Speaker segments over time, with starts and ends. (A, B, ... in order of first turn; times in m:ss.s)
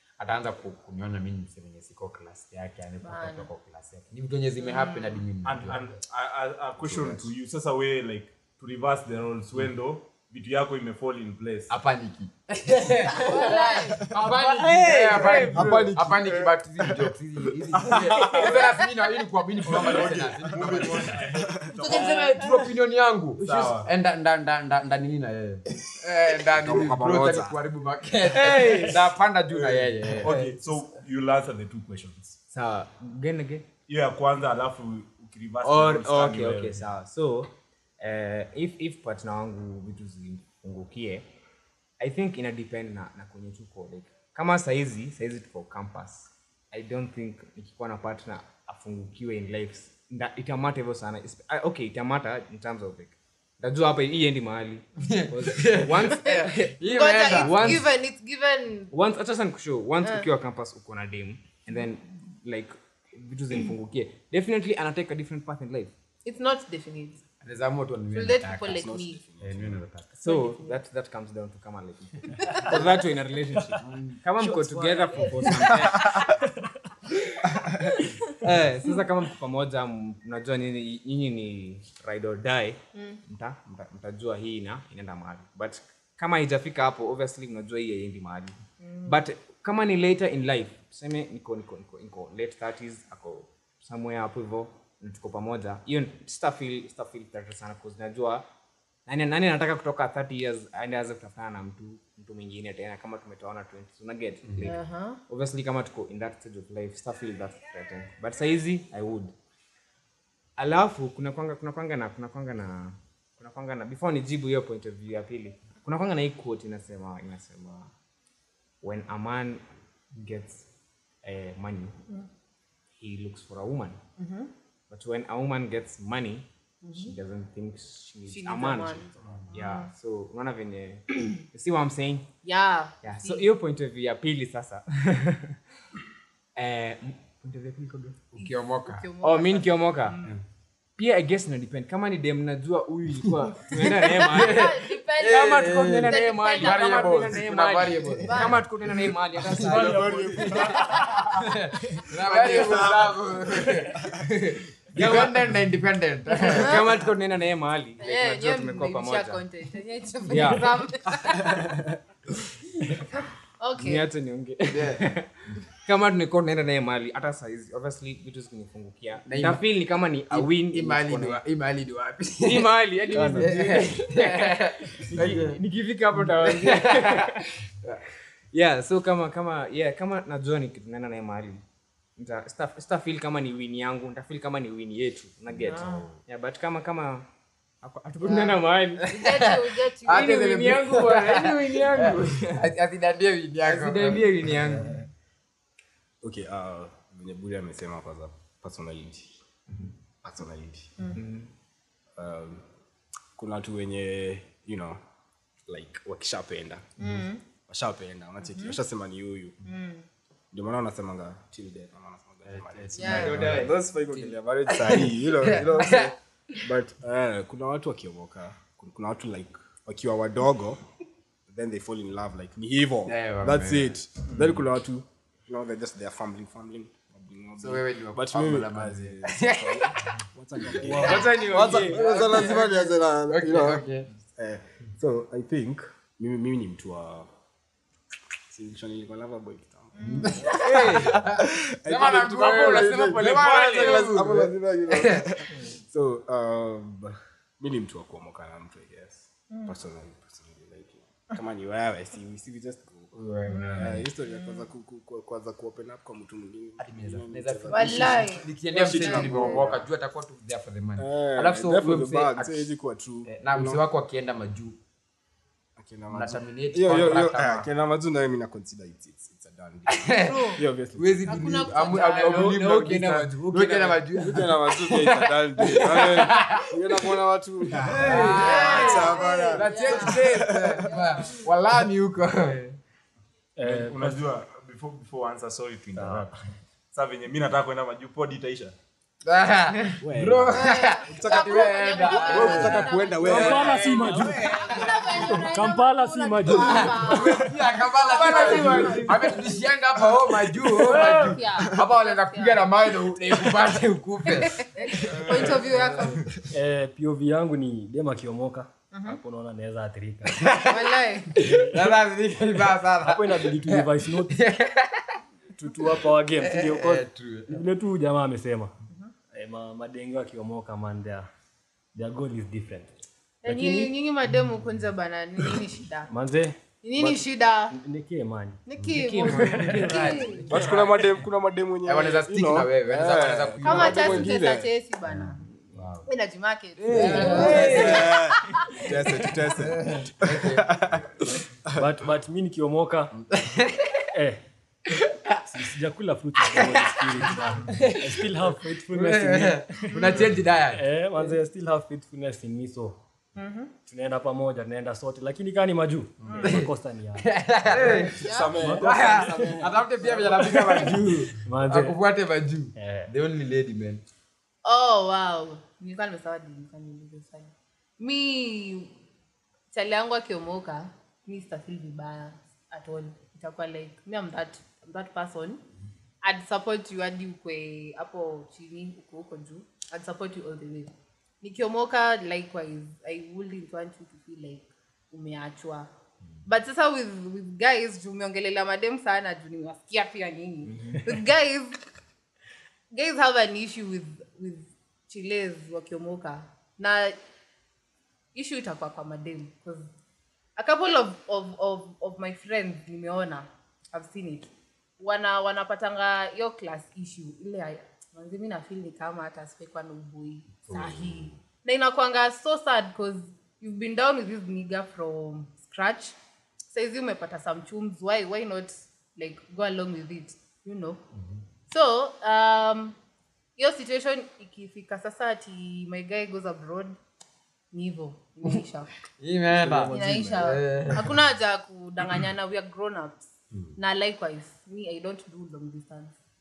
0:00.2-0:05.8 A
0:03.0-0:03.5 B
0:04.6-0:05.2 B
0:05.4-0:11.7 C
0:06.8-0:07.2 A
0:11.7-0:30.8 A
0:13.2-0:14.0 B
0:14.2-0:15.9 D
0:15.2-0:17.1 E
0:17.7-0:18.8 E
0:19.6-0:21.8 E
0:19.6-0:22.3 C
0:21.8-0:22.5 B
0:23.4-0:23.9 C
0:26.5-0:27.6 E
0:28.3-0:29.0 D
0:29.5-0:32.4 C
0:32.5-0:33.7 D
0:33.9-0:36.8 C
0:35.6-0:41.2 D
0:42.0-0:56.8 D
0:55.1-0:57.8 A
0:56.9-0:58.9 B
0:57.3-0:57.9 D
0:58.9-1:05.9 D
1:06.2-1:07.2 B
1:07.4-1:08.8 A
1:08.1-1:09.2 B
1:08.4-1:09.8 E
1:09.4-1:10.0 A
1:09.5-1:09.8 C
1:10.1-1:16.3 D
1:10.2-1:10.8 B
1:12.6-1:12.9 F
1:14.4-1:16.7 F
1:18.4-1:38.4 D
1:28.8-1:29.2 B
1:39.0-1:49.3 D
1:44.4-1:44.7 A
1:44.6-1:45.2 B
1:50.6-1:57.9 D
1:58.8-1:59.6 D
2:00.1-2:00.6 D
2:01.2-2:02.0 D
2:03.0-2:04.0 D
2:04.2-2:04.5 B
2:04.9-2:12.3 D
2:06.8-2:07.1 B
2:08.3-2:09.9 B
2:09.2-2:09.4 E
2:12.4-2:13.4 B
2:13.0-2:15.6 D
2:16.6-2:18.2 D
2:18.3-2:19.1 A
2:18.4-2:20.3 B
2:19.2-2:20.2 D
2:21.0-2:30.6 D
2:24.0-2:28.6 A
2:24.2-2:27.4 B
2:28.2-2:28.6 B
2:29.6-2:31.0 F
2:29.6-2:36.7 A
2:29.6-2:31.0 E
2:30.6-2:31.2 B
2:32.3-2:32.7 D
2:32.3-2:33.2 E
2:35.0-2:35.4 D
2:36.4-2:39.4 D
2:36.6-2:36.8 B
2:38.0-2:41.6 B
2:40.3-2:40.7 D
2:41.5-2:41.9 E
2:43.0-2:44.1 B
2:43.8-2:51.4 D
2:44.7-2:45.0 A
2:49.2-2:49.6 A
2:50.3-2:55.6 A
2:52.4-2:57.5 D
2:53.1-2:53.9 F
2:55.0-2:55.4 F
2:56.2-2:58.0 A
2:58.5-3:01.6 D
3:02.2-3:07.2 D
3:05.7-3:06.1 B
3:07.8-3:09.1 D
3:08.2-3:09.5 A
3:09.1-3:10.5 B
3:10.0-3:14.4 A
3:10.1-3:12.7 D
3:13.6-3:15.0 D
3:16.2-3:19.4 E
3:20.2-3:21.2 E
3:21.1-3:21.5 D
3:22.1-3:22.7 E
3:23.3-3:25.0 E
3:25.6-3:26.9 E
3:27.0-3:27.4 B
3:27.6-3:29.6 E
3:28.5-3:28.7 B
3:29.6-3:30.1 B
3:30.5-3:40.8 E
3:32.5-3:33.6 F
3:33.0-3:33.3 B
3:33.1-3:33.7 D
3:33.4-3:36.1 A
3:41.5-3:57.3 E
3:43.0-3:43.9 A
3:47.6-3:54.1 A
3:50.8-3:51.2 F
3:50.9-3:52.5 D
3:58.5-4:19.9 E
4:00.0-4:00.5 B
4:00.0-4:05.7 A
4:00.6-4:01.1 D
4:02.7-4:03.7 D
4:09.5-4:09.8 B
4:13.1-4:14.1 A
4:13.5-4:14.6 B
4:16.8-4:22.7 A
4:17.7-4:18.4 B
4:19.0-4:19.7 B
4:21.0-4:23.8 E
4:23.2-4:24.8 A
4:25.8-4:31.7 E
4:26.1-4:27.7 A
4:29.9-4:36.7 A
4:30.2-4:30.6 B
4:31.2-4:32.7 B
4:32.0-4:34.0 D
4:34.1-4:40.9 E
4:37.7-4:42.6 A
4:37.9-4:39.0 D
4:38.0-4:41.3 B
4:42.4-4:42.8 D
4:43.6-4:44.2 F
4:43.6-4:46.4 C
4:45.9-4:46.3 F
4:46.9-4:48.7 C
4:49.2-4:55.5 A
4:50.0-4:54.3 E
4:50.5-4:53.8 B
4:53.2-4:54.5 F
4:54.0-4:54.5 D
4:54.4-4:59.5 B
4:55.2-4:57.3 F
4:56.5-5:06.4 A
4:57.2-4:57.5 E
4:58.3-4:59.3 D
4:58.4-4:59.1 F
5:00.9-5:02.6 B
5:01.0-5:01.3 F
5:04.3-5:06.2 B
5:05.0-5:06.1 C
5:06.5-5:10.4 F
5:08.9-5:09.2 B
5:10.2-5:15.2 A
5:10.7-5:11.4 B
5:13.0-5:14.3 F
5:15.6-5:18.7 F
5:15.8-5:17.6 A
5:19.3-5:21.3 F
5:21.9-5:23.9 F
5:23.4-5:26.1 B
5:26.1-5:28.6 F
5:26.8-5:27.7 B
5:28.6-5:30.4 B
5:28.9-5:31.2 D
5:29.5-5:30.2 F
5:29.8-5:30.9 A
5:30.4-5:34.7 E
5:31.8-5:34.4 A
5:33.6-5:35.4 B
5:35.1-5:36.1 A
5:36.0-5:39.2 B
5:36.8-5:38.1 D
5:36.9-5:38.0 A
5:37.0-5:42.0 E
5:39.5-5:41.0 A
5:41.7-5:43.1 F
5:43.2-5:44.1 A
5:44.1-5:44.4 F
5:44.9-5:45.3 A
5:45.5-5:50.1 F
5:46.4-5:51.3 A
5:50.7-5:53.0 F
5:53.4-5:53.7 B
5:53.8-5:58.9 F
5:56.2-5:56.6 B
5:56.4-6:04.0 A
5:57.7-6:01.0 E
5:58.1-5:58.5 B
6:01.4-6:02.0 F
6:02.8-6:03.1 F
6:04.6-6:09.0 B
6:09.7-6:15.6 B
6:16.2-6:25.9 B
6:26.4-6:31.8 B
6:30.7-6:31.0 D
6:32.9-6:37.2 B
6:38.3-6:39.9 B
6:40.6-6:56.1 B
6:50.7-6:51.3 A
6:56.7-7:01.0 B
7:01.7-7:03.0 B
7:03.6-7:07.0 B
7:07.7-7:08.9 B
7:09.2-7:11.1 A
7:09.5-7:10.8 E
7:09.9-7:16.2 B